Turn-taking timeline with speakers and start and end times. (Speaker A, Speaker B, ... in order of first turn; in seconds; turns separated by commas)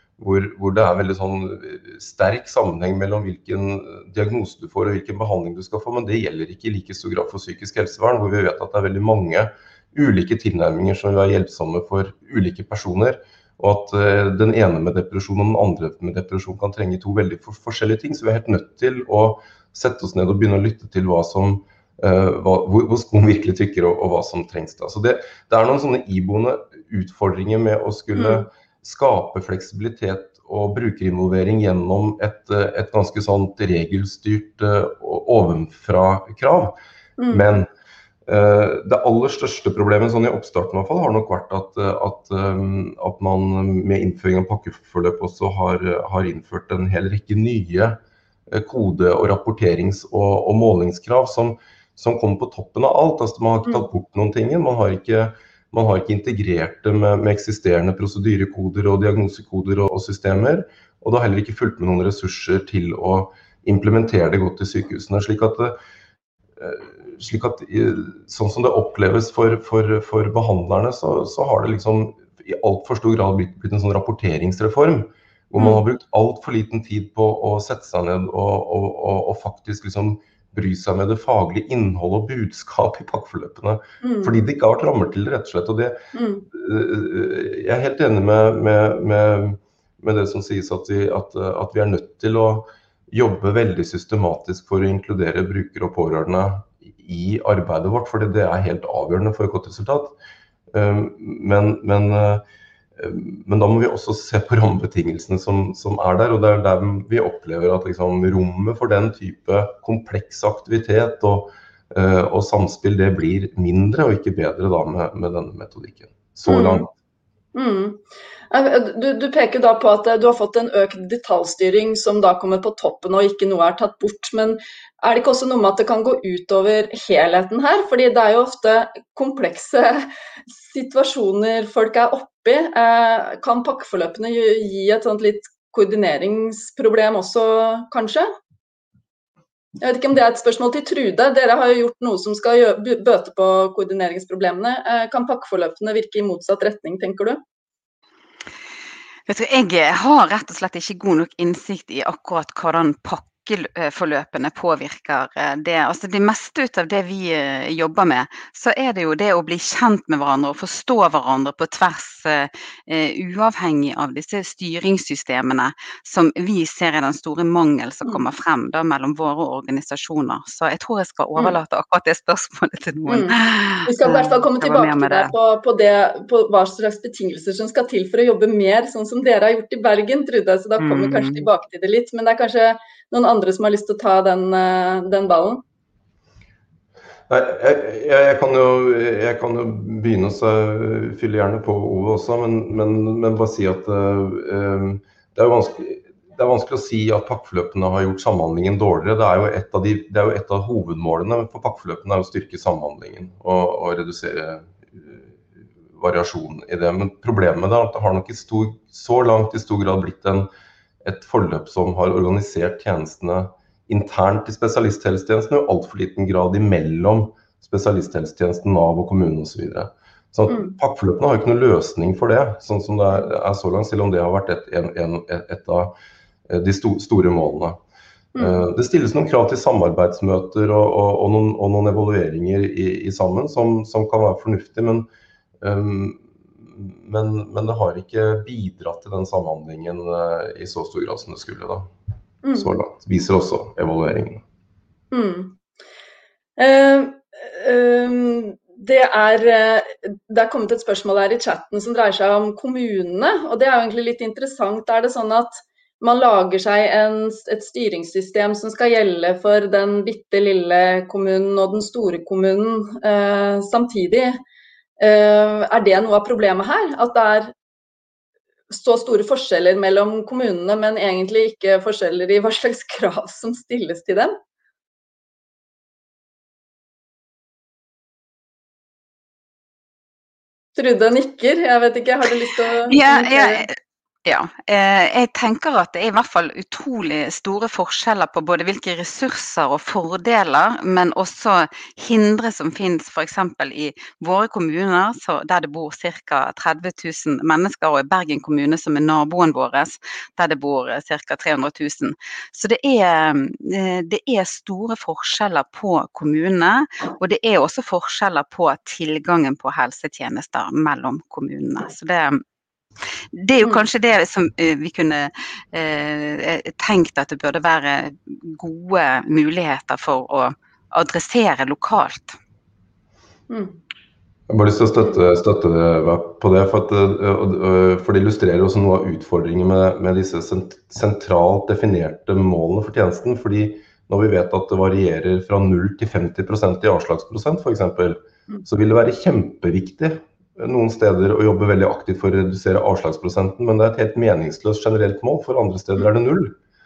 Speaker A: 0.2-36.8, Speaker B: 28.2-28.5, Speaker B: 37.2-37.5, Speaker A: 37.3-37.7, Speaker A: 38.3-65.8, Speaker A: 66.6-86.0, Speaker B: 75.6-75.8, Speaker B: 84.0-84.4, Speaker B: 86.1-86.5, Speaker A: 86.5-100.2, Speaker A: 100.7-102.4, Speaker A: 103.0-116.9, Speaker B: 116.5-116.9, Speaker B: 117.5-138.3, Speaker B: 139.8-147.4, Speaker C: 149.3-175.3, Speaker B: 173.1-185.6, Speaker C: 180.8-181.5, Speaker A: 187.3-205.3, Speaker A: 205.9-210.5, Speaker A: 211.0-225.9, Speaker B: 220.5-220.8, Speaker A: 226.5-227.8, Speaker B: 228.3-228.7, Speaker A: 228.4-235.1, Speaker A: 235.6-241.9, Speaker B: 242.4-242.8, Speaker A: 242.6-244.4, Speaker B: 245.1-245.6, Speaker B: 246.6-264.4, Speaker B: 265.0-267.5, Speaker B: 268.7-274.4, Speaker B: 280.8-283.7, Speaker C: 282.9-312.4, Speaker C: 313.3-322.4, Speaker B: 323.5-323.8, Speaker A: 324.5-346.6